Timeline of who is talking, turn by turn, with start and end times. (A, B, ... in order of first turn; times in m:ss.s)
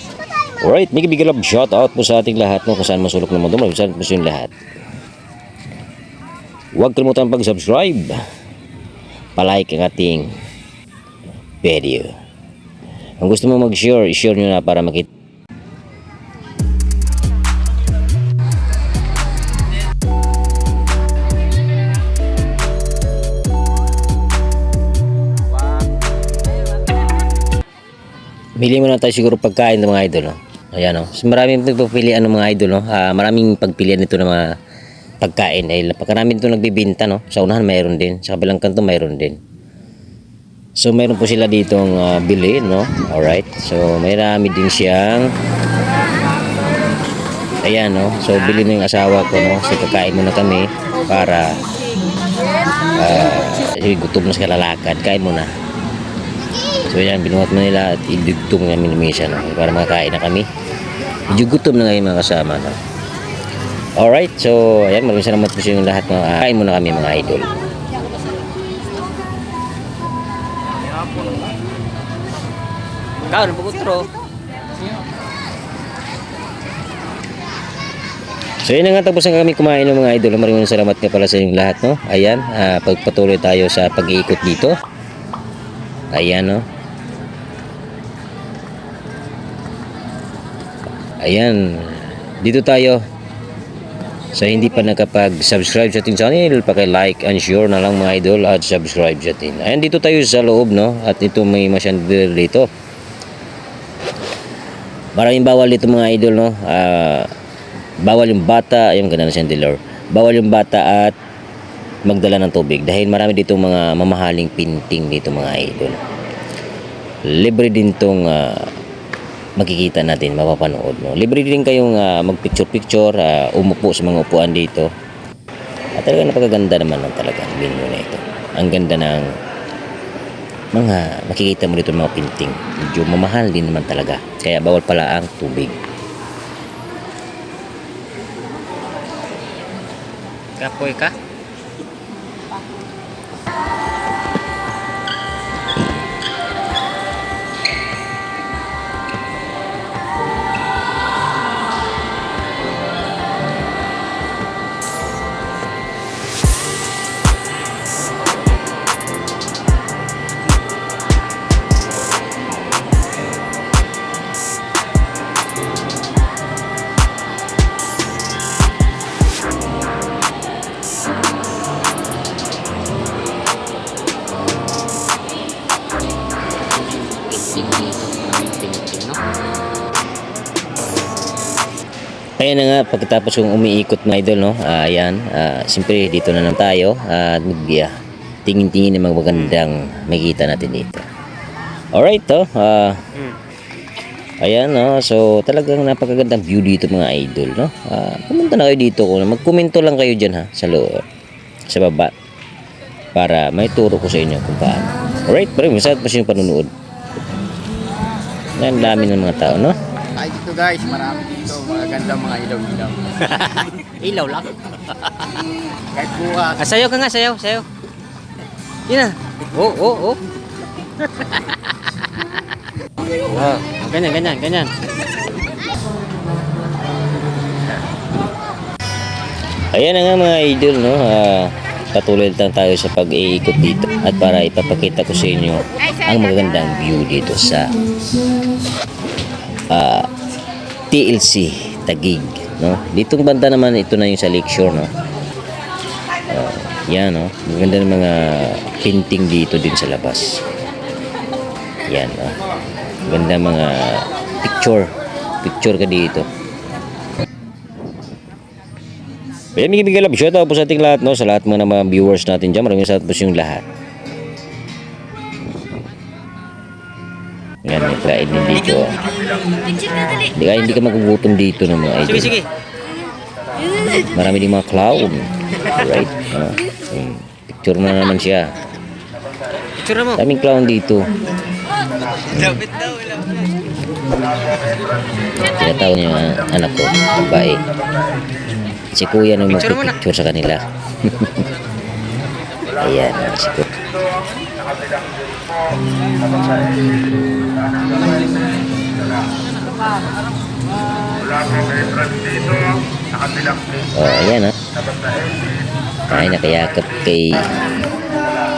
0:00.6-0:04.5 A
0:06.8-0:08.2 A
0:09.4-0:10.3 A
0:11.6-0:12.1 A
0:13.2-0:15.1 A
0:28.6-0:34.5 A
0:35.2-0:39.4 A
0:40.8-0:45.3 A
0:47.6-0:51.6 A
0:53.0-0:55.5 A
0:56.9-1:00.5 A
1:01.3-1:02.8 A
1:04.0-1:07.5 A
1:13.3-1:14.1 B
1:18.6-1:24.8 A
1:26.1-1:26.7 A
1:31.2-1:33.0 A
1:34.3-1:42.7 A
1:45.2-1:47.3 A
1:48.0-1:51.2 A
1:52.1-1:56.0 A
1:57.3-1:58.7 A
1:59.6-2:04.9 A
2:06.0-2:09.3 A
2:10.7-2:15.8 A
2:20.6-2:21.1 B
2:57.1-2:59.2 B
3:02.4-3:07.9 A
3:08.5-3:11.1 A
3:11.9-3:13.0 A
3:14.4-3:21.0 A
3:21.7-3:22.1 A
3:23.2-3:26.7 A
3:28.6-3:29.8 A
3:30.2-3:33.1 C
3:33.2-3:34.7 B
3:35.9-3:36.6 C
3:36.6-3:37.7 B
3:38.9-3:40.2 B
3:41.0-3:41.5 B
3:43.2-3:44.7 B
3:49.7-3:57.7 A
3:59.7-4:00.1 A
4:00.9-4:04.9 A
4:06.3-4:10.3 A
4:11.9-4:12.4 A
4:13.0-4:16.3 A
4:19.6-4:23.6 A
4:27.6-4:29.0 A
4:30.3-4:32.4 A
4:32.1-4:32.5 B
4:34.1-4:38.5 A
4:39.8-4:40.2 B
4:40.1-4:41.1 A
4:42.3-4:42.6 A
4:45.4-4:47.6 A
4:48.9-4:51.5 A
4:52.8-4:53.7 A
5:04.0-5:04.6 A
5:06.1-5:07.4 A